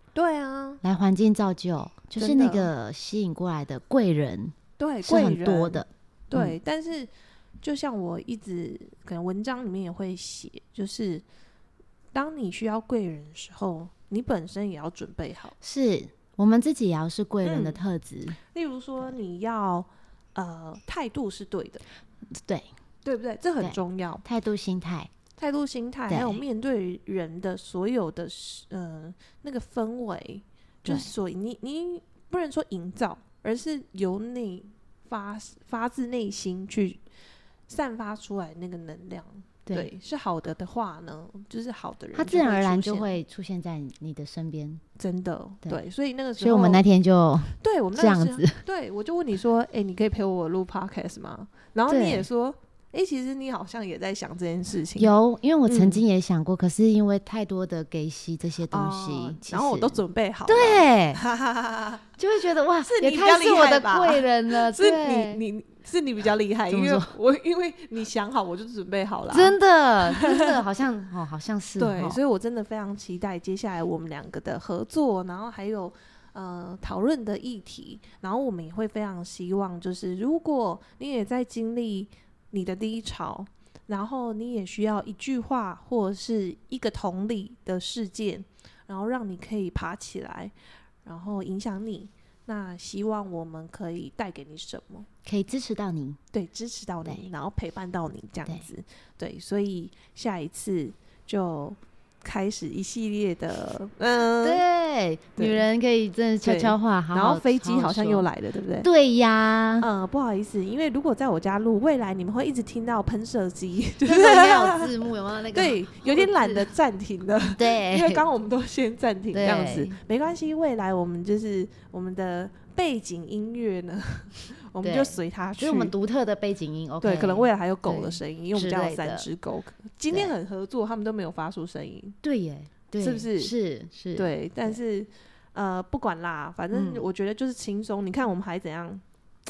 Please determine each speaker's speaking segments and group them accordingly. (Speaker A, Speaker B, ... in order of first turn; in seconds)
Speaker A: 0.1-0.8, 2.1-2.7, 4.8-7.1, 7.6-11.2, 12.1-15.6, 17.4-17.8, 18.4-21.8, 23.0-24.2, 25.4-37.0, 37.7-43.1, 45.0-46.8, 47.6-55.1, 55.6-56.0, 58.7-62.0, 62.8-70.6, 71.8-90.5, 91.0-95.1, 96.3-104.6, 105.4-105.6, 106.4-108.9, 109.8-125.9, 127.0-132.2, 133.0-133.5, 134.1-139.0
Speaker B: 0.8-6.5, 15.6-18.4, 22.3-22.7, 23.6-25.1, 26.1-26.4, 30.8-31.1, 42.1-44.8, 46.4-48.6, 51.9-52.2, 55.0-61.2, 62.2-65.4, 66.7-67.1, 69.3-72.2, 95.2-96.2, 104.4-108.3, 108.8-109.9, 114.0-116.7, 117.5-118.2, 119.3-120.0, 124.8-129.3, 130.1-130.3, 132.2-134.8, 136.7-137.1